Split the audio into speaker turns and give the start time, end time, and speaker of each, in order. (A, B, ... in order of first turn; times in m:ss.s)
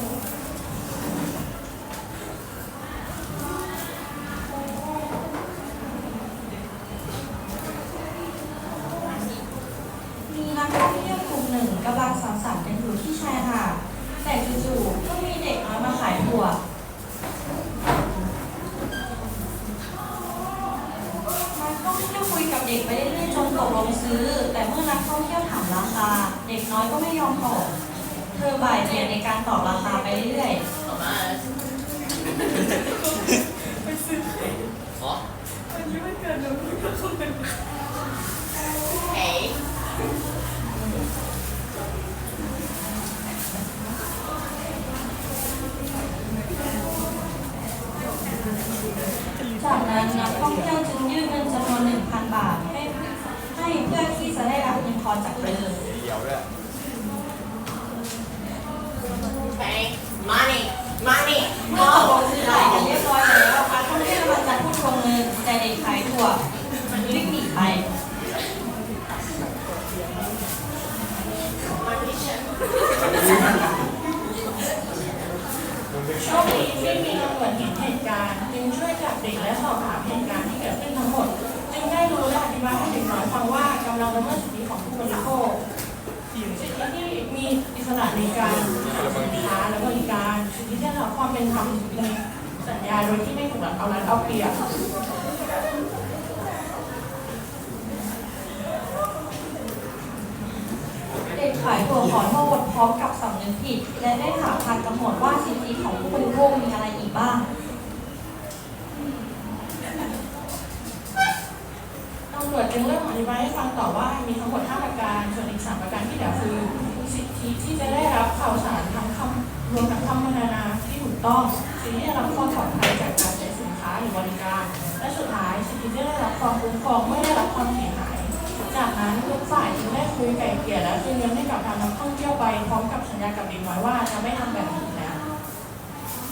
0:10.3-0:16.6 A
0:21.5-0:27.7 A
0:28.3-0:30.6 A
0:29.9-0:30.2 B
0:30.8-0:31.4 C
0:33.8-0:34.2 B
0:35.7-0:37.2 B
0:39.1-0:39.6 C
0:49.6-0:53.0 A
0:53.5-0:55.8 A
0:59.5-1:03.1 C
1:01.7-1:06.4 A
1:06.9-1:07.3 C
1:06.9-1:07.8 A
1:11.8-1:13.9 C
1:16.1-1:25.6 B
1:26.5-1:34.6 B
1:41.3-1:47.4 A
1:52.3-2:15.2 B